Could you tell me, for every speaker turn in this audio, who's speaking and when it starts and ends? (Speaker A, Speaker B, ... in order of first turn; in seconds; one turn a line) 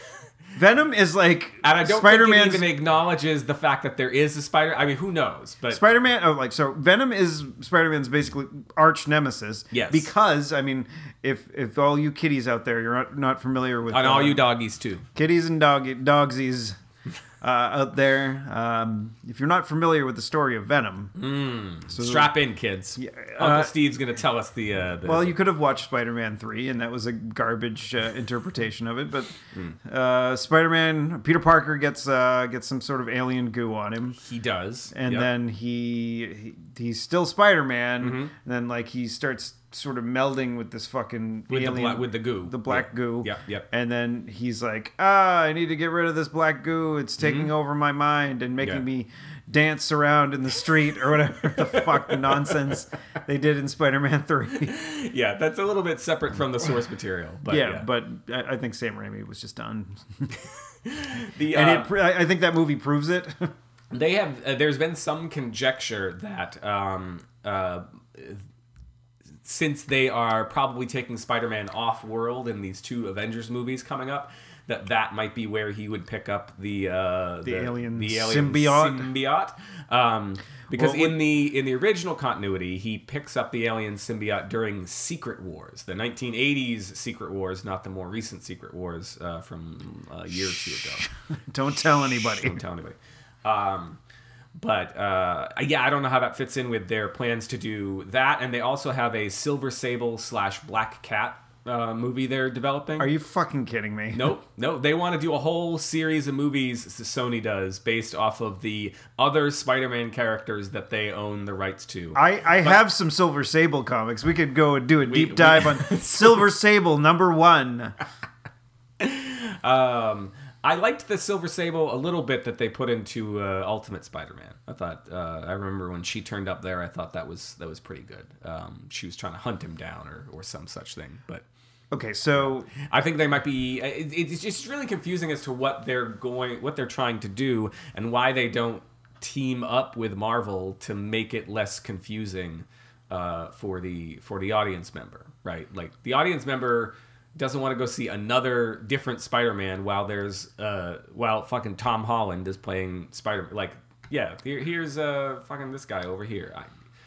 Speaker A: 0.6-2.7
Speaker B: 1.6-5.8
Speaker A: 5.7-14.4
Speaker B: 9.7-10.1
Speaker B: 13.9-15.1
Speaker A: 15.2-16.8
Speaker A: 17.4-21.1
Speaker B: 21.2-25.4
Speaker A: 21.9-22.3
Speaker A: 23.0-23.8
Speaker A: 25.1-34.2
Speaker B: 34.2-35.3
Speaker A: 34.9-54.8
Speaker B: 38.0-38.3
Speaker B: 41.5-43.7
Speaker B: 47.2-47.5
Speaker B: 51.7-52.5
Speaker B: 54.6-57.9
Speaker A: 57.5-60.4
Speaker B: 60.8-61.9
Speaker A: 61.5-63.5
Speaker B: 63.9-68.4
Speaker B: 69.4-91.1
Speaker A: 77.4-79.1
Speaker A: 80.7-81.2
Speaker A: 90.4-92.6
Speaker B: 92.1-94.0
Speaker B: 94.6-103.1
Speaker A: 103.0-104.3
Speaker B: 104.1-112.8
Speaker A: 112.2-118.0
Speaker B: 115.1-116.5
Speaker B: 119.0-131.5
Speaker A: 131.9-132.7
Speaker B: 132.3-156.7